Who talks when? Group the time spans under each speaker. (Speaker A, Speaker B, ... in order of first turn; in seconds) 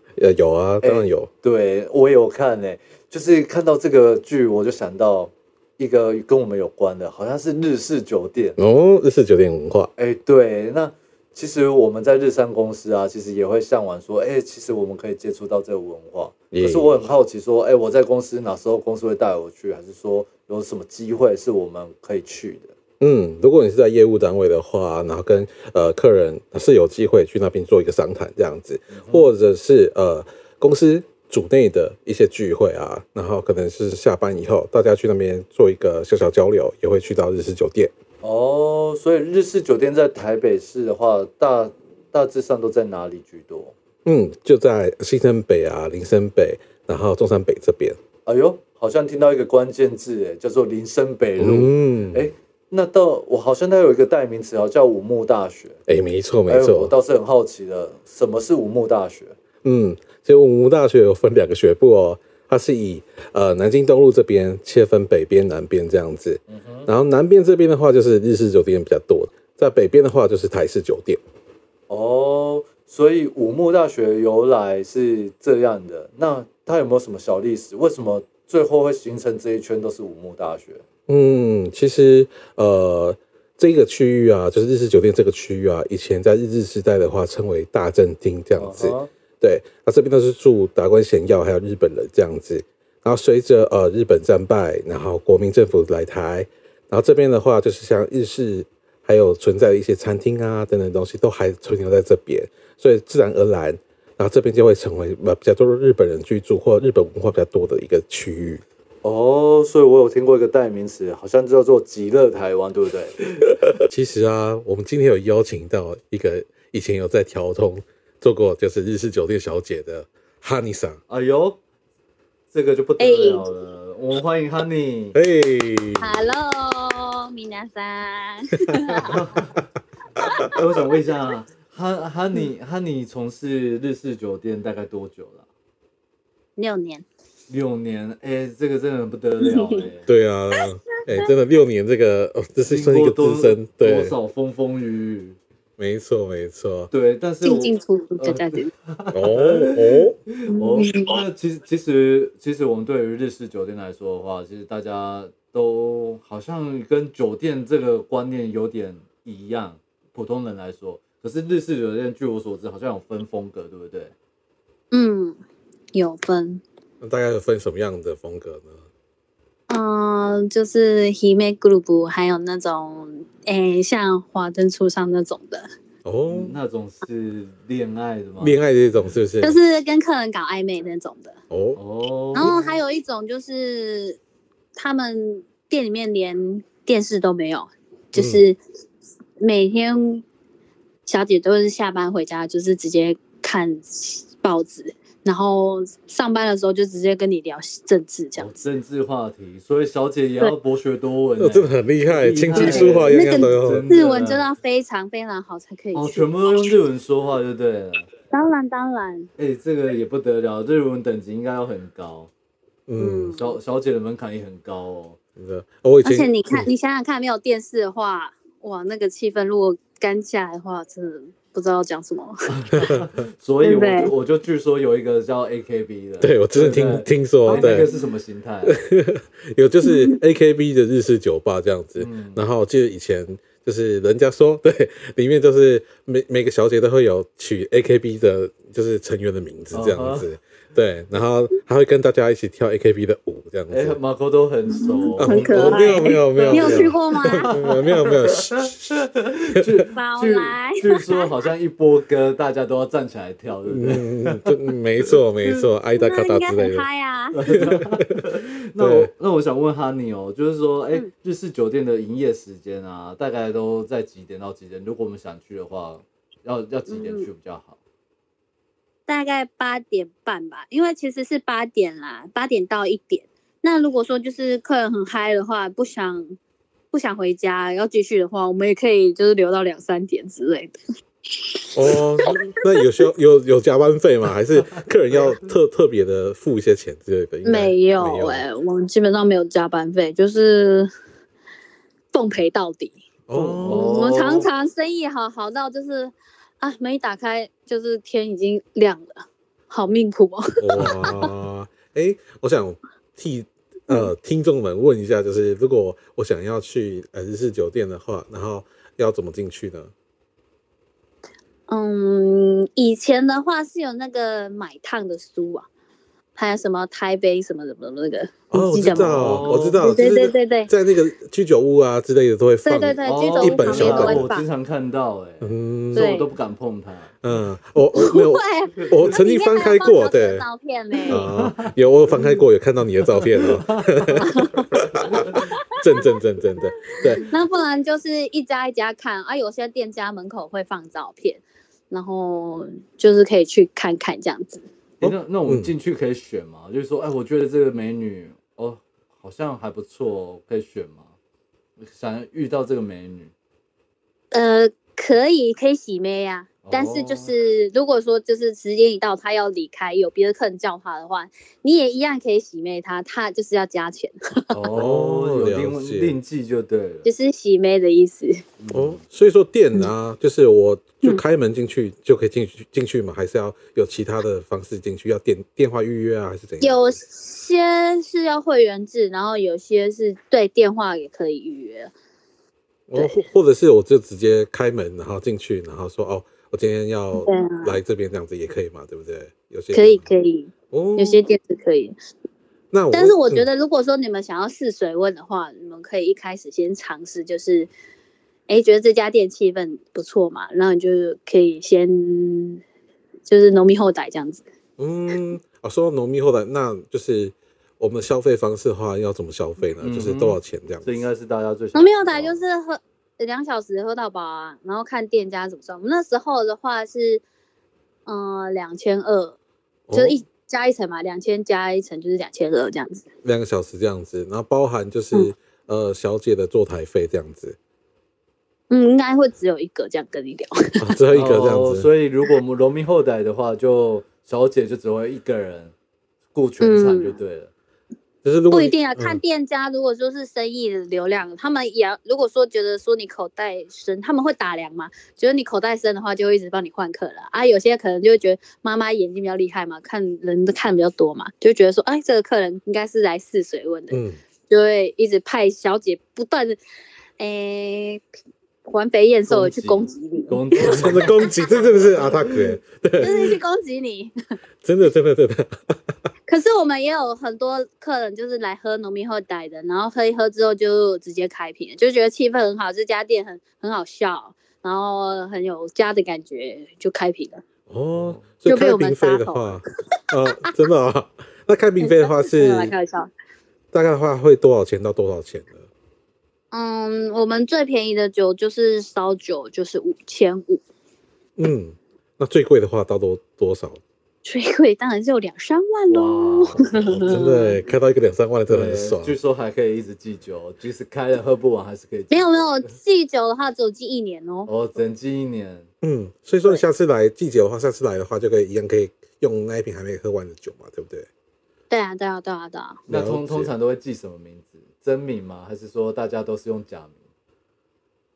Speaker A: 0.2-1.3, 8.6-9.9, 16.5-17.0, 23.0-37.9, 44.0-48.0, 51.4-52.2, 55.9-56.9, 59.6-71.2, 81.1-108.6, 113.8-121.0, 125.1-126.2, 128.7-129.6, 130.2-130.5, 140.1-144.2, 145.8-146.9, 149.1-150.2, 167.0-168.8, 176.1-176.6, 178.4-179.6, 181.5-181.8, 188.2-188.4, 201.4-203.9, 212.9-213.3, 215.4-216.7, 226.2-227.9, 228.7-244.0, 245.2-246.9, 247.5-249.0, 249.6-249.8, 253.7-256.9, 257.4-258.2, 258.8-259.1, 281.8-288.4, 293.3-294.2, 300.6-309.9, 318.5-324.3, 325.4-326.1, 327.2-330.4, 331.1-337.3, 345.0-345.7, 364.7-366.2, 368.7-377.0, 382.9-390.1, 390.7-391.2, 392.7-393.5, 404.8-411.0, 419.9-420.2, 423.2-427.6, 430.8-431.9, 438.2-439.2, 453.9-454.2, 460.6-463.3, 464.6-465.8, 477.7-482.7, 483.7-485.7, 491.4-493.8, 497.1-499.1, 505.8-511.1, 512.9-513.5
Speaker B: 0.8-8.6, 10.0-22.7, 28.9-29.3, 38.2-43.7, 48.2-55.8, 56.5-59.4, 66.5-66.9, 71.9-80.8, 88.6-89.1, 109.0-113.6, 121.1-121.6, 122.5-125.2, 129.0-129.5, 130.5-135.4, 137.5-140.1, 142.7-145.4, 146.9-164.1, 176.3-178.6, 181.8-182.8, 198.4-204.5, 205.9-208.1, 209.4-212.3, 213.3-215.2, 222.5-228.8, 232.0-232.4, 239.7-240.2, 243.7-255.2, 257.4-267.8, 284.8-285.4, 293.3-294.5, 300.8-301.1, 318.9-319.8, 323.1-327.4, 328.8-329.1, 331.1-332.3, 333.2-334.3, 334.9-335.5, 345.0-351.1, 351.8-353.3, 356.6-357.3, 364.5-367.1, 368.6-369.0, 409.8-412.4, 431.1-435.7, 436.3-437.5, 459.3-462.6, 477.9-478.2, 495.9-497.2, 498.5-502.7, 504.5-505.7, 512.9-517.0
Speaker C: 123.0-123.5, 126.0-129.2, 130.2-130.5, 136.6-137.1, 139.4-139.9, 140.5-141.3, 147.4-148.7, 150.5-151.2, 164.9-165.4, 165.9-166.6, 169.7-175.7, 179.4-181.4, 182.3-184.2, 184.8-188.6, 189.4-190.2, 191.1-198.6, 202.5-206.2, 208.3-209.3, 213.0-213.6, 216.0-222.5, 223.6-224.1, 227.5-228.0, 229.9-230.2, 244.7-247.5, 249.9-251.3, 255.4-257.4, 266.9-267.3, 269.1-276.4, 276.9-280.8, 281.4-281.7, 287.4-290.9, 292.1-293.0, 293.7-301.2, 311.7-315.7, 316.4-320.7, 322.6-324.4, 325.9-326.3, 327.9-331.2, 334.2-334.7, 337.2-344.6, 354.3-364.6, 367.1-368.4, 376.6-381.9, 382.9-383.2, 387.1-387.8, 389.7-391.9, 392.9-397.7, 398.5-402.6, 403.3-404.4, 411.8-417.2, 418.1-419.4, 419.9-423.1, 428.7-430.9, 436.6-437.2, 438.5-456.6, 457.2-458.1, 458.7-461.4, 463.0-464.1, 466.3-477.4, 478.4-479.6, 481.8-483.1, 486.5-490.6, 494.2-497.6, 502.1-504.5, 511.7-512.8